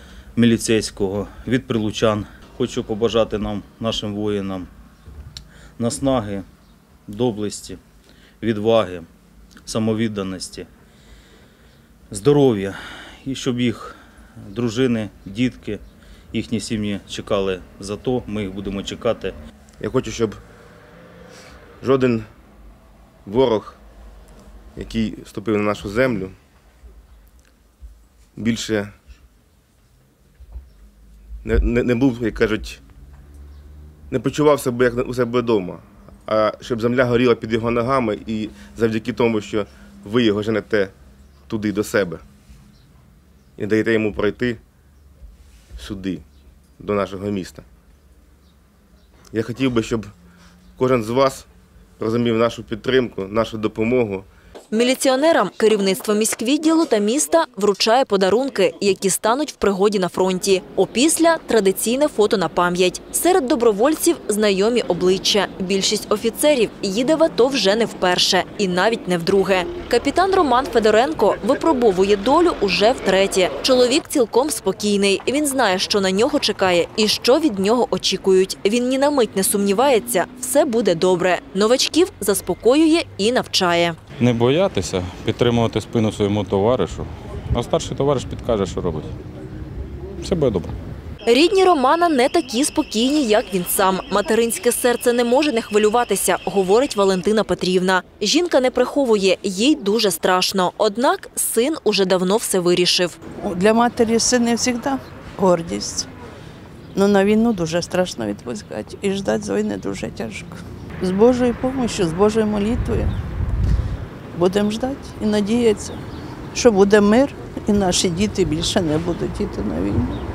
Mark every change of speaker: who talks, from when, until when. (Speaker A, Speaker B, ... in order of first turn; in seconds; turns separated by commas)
Speaker A: 0.3-4.7, Speaker A: 5.8-6.5, Speaker A: 7.1-7.8, Speaker A: 8.4-9.1, Speaker A: 9.7-10.7, Speaker A: 12.1-14.0, Speaker A: 14.5-19.4, Speaker B: 19.8-20.4, Speaker B: 21.8-22.2, Speaker B: 23.2-23.8, Speaker B: 24.8-26.4, Speaker B: 28.4-28.9, Speaker B: 31.4-32.8, Speaker B: 34.1-40.9, Speaker B: 41.5-42.2, Speaker B: 43.6-44.6, Speaker B: 45.8-46.2, Speaker B: 46.8-47.6, Speaker B: 49.3-50.1, Speaker B: 50.8-51.5, Speaker B: 52.0-54.3, Speaker C: 54.7-84.0, Speaker D: 84.2-89.1, Speaker D: 90.2-90.7, Speaker C: 91.2-103.2, Speaker E: 103.4-106.1, Speaker E: 106.9-113.2, Speaker E: 114.3-116.0, Speaker E: 116.5-120.2